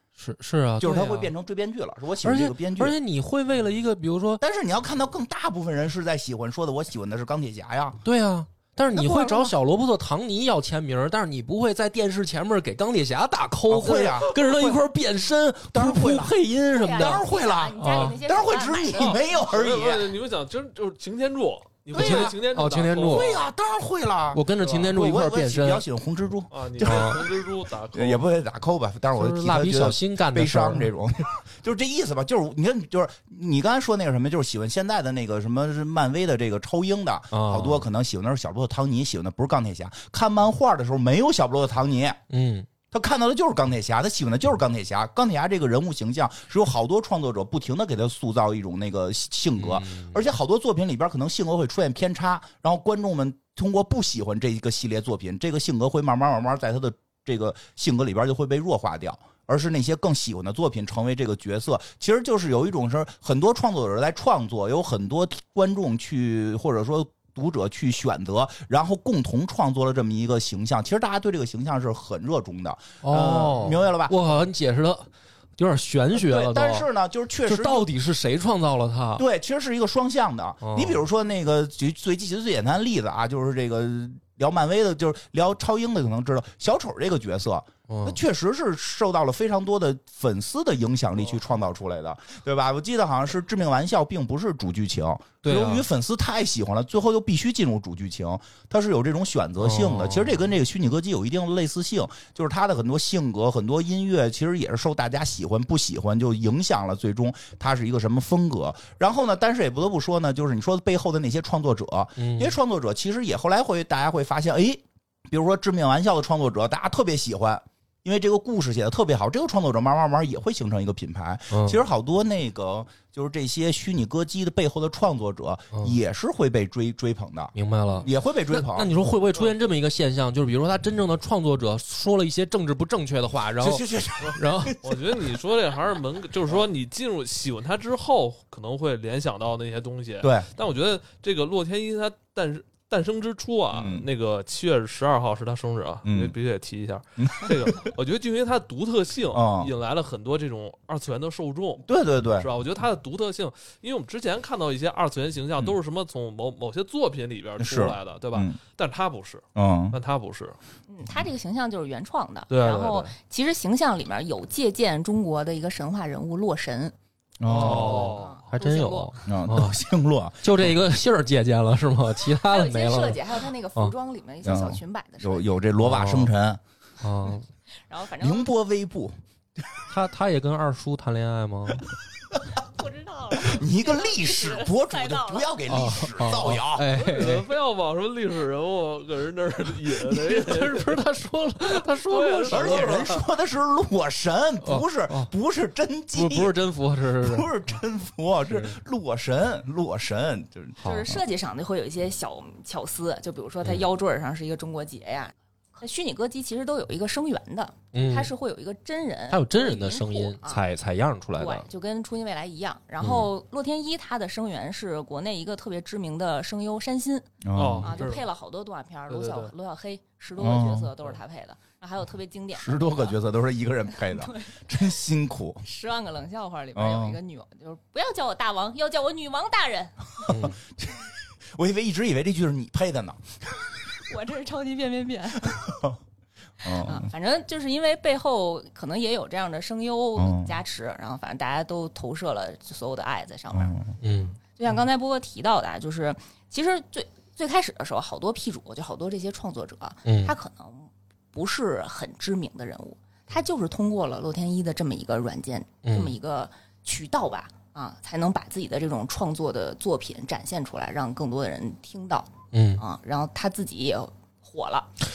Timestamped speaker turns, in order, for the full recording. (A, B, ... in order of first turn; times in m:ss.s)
0:00.2-0:01.3 A
0:00.8-0:03.0 B
0:02.2-0:04.4 A
0:04.4-0:08.0 B
0:08.0-0:18.2 A
0:08.9-0:09.5 C
0:13.7-0:14.8 B
0:15.7-0:16.4 B
0:16.7-0:19.2 C
0:16.9-0:20.1 B
0:19.0-0:23.5 D
0:21.9-0:22.4 B
0:21.9-0:23.3 A
0:23.1-0:42.2 B
0:24.3-0:25.8 A
0:24.6-0:24.9 D
0:26.5-0:28.2 D
0:26.8-0:27.2 A
0:29.2-0:30.9 A
0:37.3-0:37.8 A
0:42.3-0:42.7 A
0:42.9-1:14.2 B
0:49.6-0:50.2 A
1:13.0-1:16.9 A
1:16.1-1:17.9 B
1:17.4-1:19.2 A
1:19.2-2:08.9 B
1:20.6-1:21.0 A
1:27.9-1:28.2 A
1:35.4-1:35.8 A
1:39.6-1:40.5 A
1:52.2-1:52.6 A
2:01.5-2:01.8 A
2:05.7-2:06.0 A
2:07.5-2:14.8 A
2:13.6-2:15.4 B
2:14.2-2:40.6 D
2:20.2-2:20.5 B
2:23.7-2:24.0 B
2:26.0-2:26.3 B
2:27.2-2:27.9 B
2:29.3-2:29.7 B
2:31.8-2:32.5 B
2:37.6-2:38.6 B
2:39.6-2:40.0 B
2:40.9-2:46.9 C
2:42.5-2:43.1 D
2:47.4-2:48.2 B
2:47.5-2:48.4 D
2:47.5-2:49.8 A
2:47.9-2:49.2 C
2:49.2-2:50.8 B
2:50.4-2:53.2 A
2:52.4-2:55.5 C
2:54.4-2:56.6 B
2:55.8-2:56.3 A
2:57.0-2:57.5 A
2:57.9-2:58.5 C
2:58.2-2:59.6 B
2:59.9-3:01.8 A
3:02.6-3:05.6 C
3:03.3-3:06.9 B
3:05.7-3:07.4 A
3:06.9-3:11.0 D
3:10.0-3:13.2 A
3:11.7-3:13.1 D
3:12.5-3:16.5 B
3:14.6-3:15.3 A
3:16.1-3:17.5 A
3:17.2-3:21.2 B
3:18.5-3:18.8 A
3:20.8-3:30.6 C
3:20.8-3:21.1 A
3:27.9-3:28.3 A
3:29.3-3:31.7 A
3:31.4-3:37.3 C
3:33.0-3:33.3 A
3:37.4-3:38.0 B
3:37.5-3:38.3 D
3:37.8-3:43.2 C
3:39.1-3:39.5 D
3:40.4-3:40.9 B
3:42.5-3:45.6 B
3:44.0-3:44.8 C
3:45.6-3:50.3 C
3:46.7-3:47.2 B
3:50.2-3:53.6 B
3:50.3-3:50.6 A
3:54.0-3:55.8 C
3:55.4-3:56.0 B
3:56.6-3:57.1 B
3:56.6-4:24.9 C
4:00.2-4:00.6 B
4:03.5-4:03.8 B
4:04.0-4:04.4 A
4:10.0-4:10.3 A
4:15.8-4:16.2 A
4:22.5-4:22.8 A